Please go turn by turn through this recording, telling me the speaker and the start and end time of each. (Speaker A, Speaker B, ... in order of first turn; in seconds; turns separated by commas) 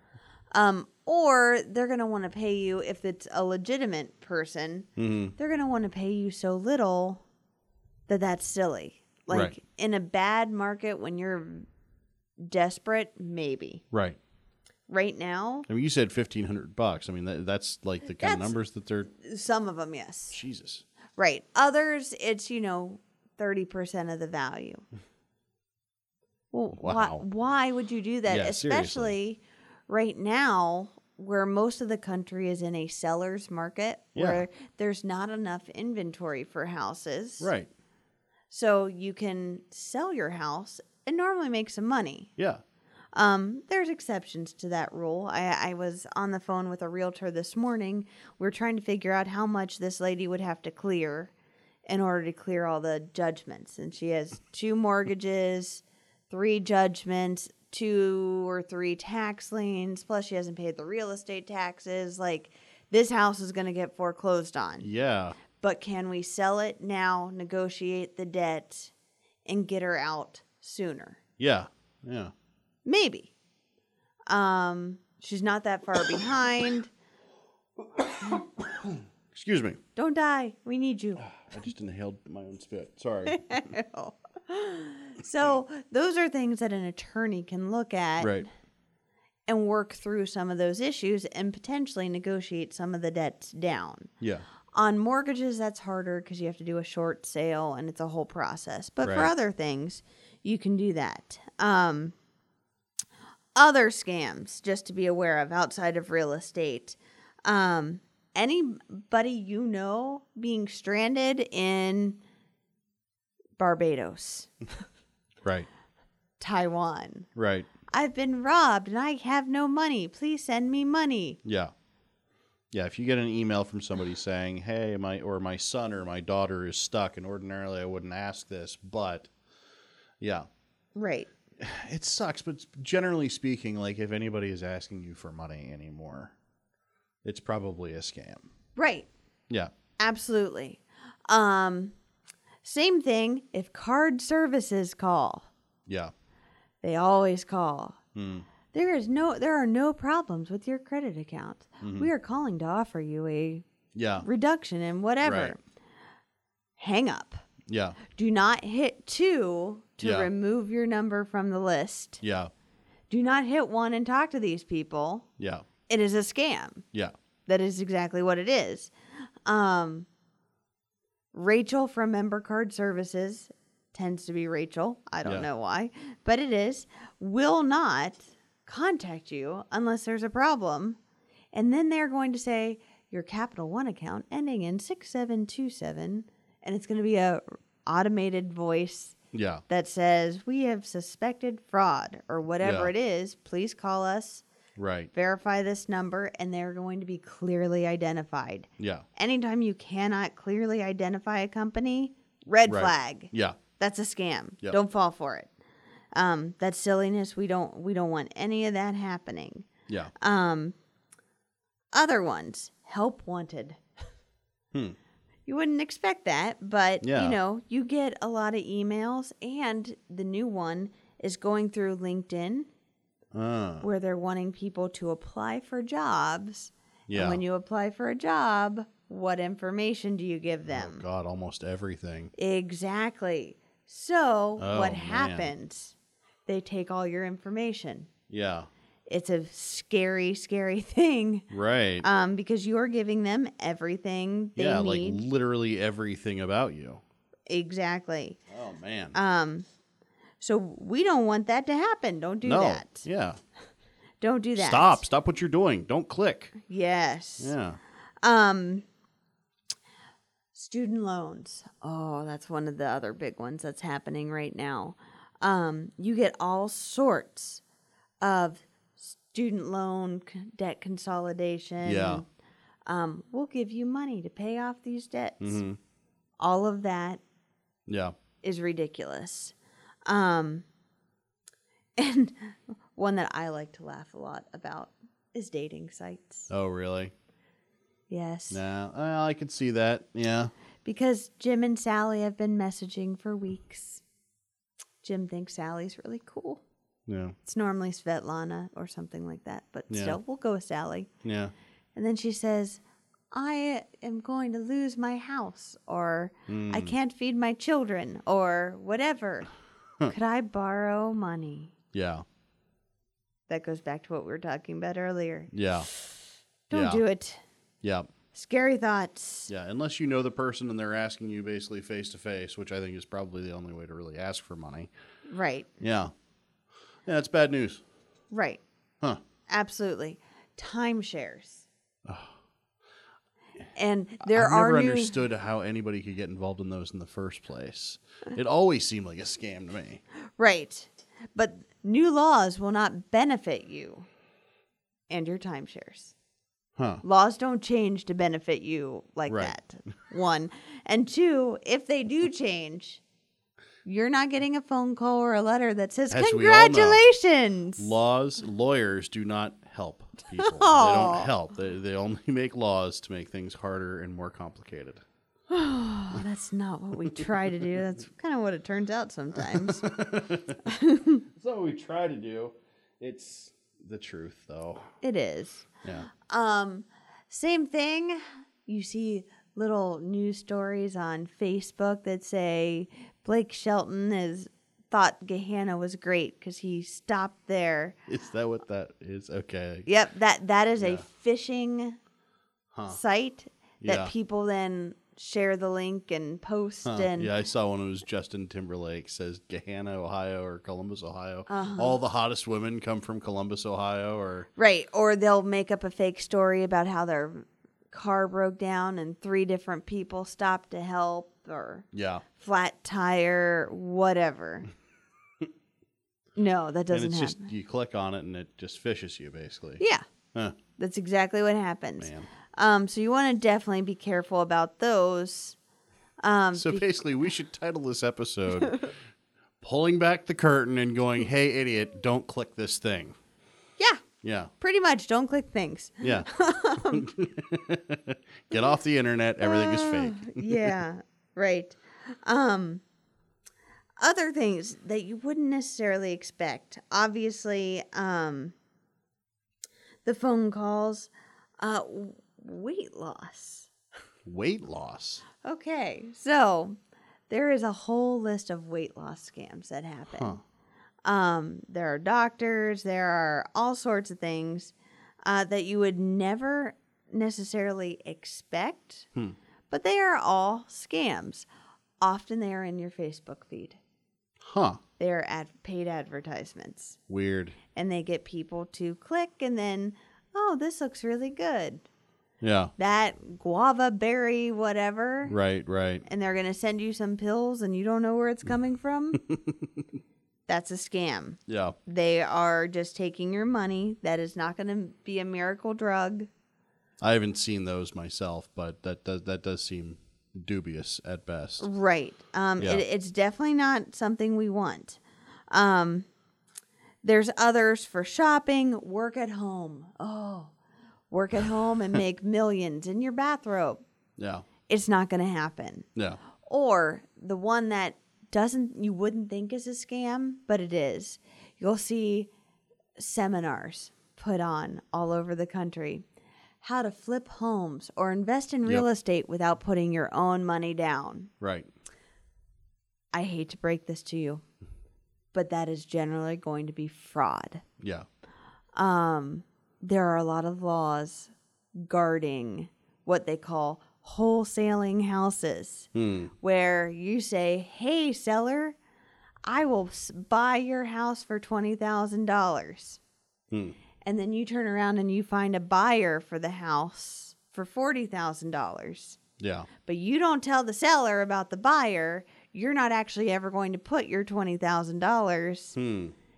Speaker A: 0.5-7.2, Speaker B: 5.0-5.3, Speaker A: 8.1-11.7, Speaker B: 9.3-9.6, Speaker A: 12.4-13.8, Speaker B: 13.9-14.2, Speaker A: 14.9-15.7, Speaker B: 15.7-19.1, Speaker A: 18.2-18.6, Speaker A: 19.1-20.4, Speaker B: 20.3-20.9, Speaker A: 21.2-24.9, Speaker A: 26.5-37.5, Speaker B: 26.8-27.2, Speaker B: 28.3-29.1, Speaker B: 34.1-34.4, Speaker B: 37.4-37.7, Speaker A: 38.5-42.3, Speaker A: 43.1-51.3, Speaker A: 51.9-64.9, Speaker B: 64.8-65.4, Speaker A: 65.5-68.9, Speaker A: 69.5-71.2, Speaker B: 71.4-72.3, Speaker A: 72.8-73.3, Speaker A: 74.3-76.9, Speaker B: 78.0-79.8, Speaker A: 80.0-81.2, Speaker B: 81.2-83.7, Speaker A: 83.3-88.5, Speaker B: 88.2-88.5, Speaker A: 89.5-94.1, Speaker B: 94.2-94.5, Speaker A: 94.7-102.2, Speaker B: 99.0-99.3, Speaker A: 103.5-112.2, Speaker A: 113.6-114.8, Speaker A: 116.4-117.3, Speaker B: 117.4-117.7, Speaker A: 117.9-121.4, Speaker B: 121.5-121.7, Speaker B: 122.7-129.3, Speaker B: 130.2-130.5, Speaker A: 130.9-131.3, Speaker B: 131.6-136.3, Speaker B: 137.2-138.5, Speaker A: 138.8-139.1, Speaker A: 140.0-141.9, Speaker A: 142.6-145.5, Speaker B: 145.9-146.1, Speaker A: 146.8-148.0, Speaker B: 148.2-148.5, Speaker A: 148.7-153.7, Speaker B: 151.8-152.1, Speaker B: 153.9-154.3, Speaker A: 154.2-155.6, Speaker B: 155.2-155.6, Speaker A: 156.8-157.4, Speaker B: 157.7-158.0, Speaker A: 158.1-162.2, Speaker B: 160.0-160.3, Speaker B: 162.2-162.5, Speaker A: 163.1-165.3, Speaker B: 165.4-165.7, Speaker A: 165.9-166.8, Speaker A: 167.5-168.9, Speaker A: 169.4-170.1, Speaker A: 171.3-181.0, Speaker A: 181.5-189.2, Speaker B: 189.3-189.6, Speaker A: 189.7-194.4, Speaker B: 192.6-192.9, Speaker B: 194.8-195.1, Speaker A: 195.1-205.5, Speaker B: 198.8-199.1, Speaker B: 202.7-203.6, Speaker A: 206.1-209.7, Speaker A: 210.2-210.8, Speaker A: 211.9-213.8, Speaker A: 215.5-222.7, Speaker B: 217.0-217.4, Speaker B: 223.3-223.9, Speaker A: 223.8-231.0, Speaker B: 227.1-227.4, Speaker B: 230.7-232.3, Speaker A: 232.4-235.9, Speaker B: 234.6-235.5, Speaker A: 236.5-238.1, Speaker B: 238.3-238.7, Speaker A: 239.1-241.5, Speaker B: 241.5-242.1, Speaker A: 242.0-245.2, Speaker B: 244.6-247.0, Speaker A: 247.5-248.4, Speaker B: 248.5-249.2, Speaker A: 249.1-249.7, Speaker A: 250.4-253.1, Speaker B: 252.4-253.4, Speaker A: 254.2-255.0, Speaker B: 254.6-256.6, Speaker A: 256.6-257.5, Speaker B: 257.4-257.8, Speaker A: 258.2-258.9, Speaker A: 260.6-267.6, Speaker A: 268.2-272.3, Speaker B: 271.8-272.2, Speaker A: 272.9-275.6, Speaker B: 275.4-275.8, Speaker A: 276.4-277.2, Speaker B: 277.9-278.1, Speaker A: 278.4-279.6, Speaker A: 280.1-280.6, Speaker A: 282.0-286.5, Speaker B: 286.5-287.1, Speaker A: 288.1-288.6, Speaker B: 288.5-290.5, Speaker A: 290.9-294.0, Speaker A: 295.0-296.6, Speaker B: 297.1-297.4, Speaker A: 297.4-301.1, Speaker B: 299.9-300.2, Speaker B: 301.2-301.5, Speaker A: 301.9-309.5, Speaker B: 306.5-306.9, Speaker A: 310.1-311.7, Speaker B: 311.9-312.2, Speaker A: 313.5-317.4, Speaker B: 315.5-315.9, Speaker B: 316.7-317.0, Speaker B: 317.8-318.1, Speaker A: 318.3-319.5, Speaker B: 319.5-324.9, Speaker A: 325.3-325.7, Speaker B: 325.8-326.1, Speaker B: 327.1-327.8, Speaker A: 328.3-328.6, Speaker A: 329.5-331.7, Speaker B: 332.1-332.3, Speaker A: 333.8-335.2, Speaker B: 334.2-340.0, Speaker A: 340.4-344.1, Speaker A: 345.1-346.1, Speaker B: 346.8-347.0, Speaker A: 347.0-353.0, Speaker B: 349.3-349.5, Speaker A: 353.9-357.9, Speaker B: 356.1-357.0, Speaker B: 357.8-365.0, Speaker A: 360.4-361.3, Speaker A: 365.5-370.0, Speaker B: 369.5-370.6, Speaker A: 370.6-371.2, Speaker B: 371.4-374.9, Speaker A: 375.0-388.0, Speaker B: 375.8-376.1, Speaker B: 388.1-389.9, Speaker A: 389.9-392.0, Speaker B: 390.8-391.1, Speaker B: 392.7-393.0, Speaker A: 392.9-397.3, Speaker B: 393.8-394.1, Speaker B: 396.9-404.5, Speaker A: 401.5-402.0, Speaker A: 404.6-411.9, Speaker B: 411.9-412.2, Speaker A: 412.4-414.7, Speaker A: 416.4-417.5, Speaker B: 416.9-419.8, Speaker A: 419.8-420.1, Speaker A: 420.8-425.6, Speaker B: 422.0-422.3, Speaker A: 426.2-426.9, Speaker B: 426.6-428.9, Speaker B: 429.6-433.2, Speaker A: 433.8-434.0, Speaker B: 434.2-434.5, Speaker A: 434.6-437.1, Speaker B: 436.0-436.3, Speaker B: 436.9-440.8, Speaker A: 439.4-442.8, Speaker A: 444.0-448.6, Speaker A: 450.1-453.7, Speaker B: 454.3-455.3, Speaker A: 455.4-456.8, Speaker A: 457.3-460.4, Speaker B: 460.1-460.4, Speaker A: 461.1-464.7, Speaker A: 465.2-469.1, Speaker A: 469.7-471.5, Speaker A: 472.0-473.8, Speaker B: 474.4-474.8, Speaker A: 475.0-477.0, Speaker B: 477.1-477.6, Speaker A: 477.7-481.9, Speaker B: 482.4-482.7, Speaker A: 482.8-485.4, Speaker B: 485.3-486.1, Speaker A: 486.1-489.2, Speaker B: 489.1-489.8, Speaker A: 490.5-496.3, Speaker B: 491.5-491.8, Speaker B: 497.0-501.7, Speaker A: 501.6-506.1, Speaker B: 502.6-502.8, Speaker A: 507.0-510.5, Speaker A: 511.1-513.8, Speaker B: 514.2-514.5, Speaker A: 514.7-515.9, Speaker A: 516.4-522.3, Speaker A: 523.0-526.0, Speaker A: 526.6-531.3, Speaker B: 531.4-531.7, Speaker A: 533.1-534.4, Speaker A: 535.3-537.6, Speaker B: 537.8-538.1, Speaker A: 538.8-548.8, Speaker B: 546.0-546.3, Speaker A: 549.5-553.0, Speaker A: 554.0-559.2, Speaker B: 559.4-559.7, Speaker A: 559.8-565.8, Speaker B: 565.8-566.1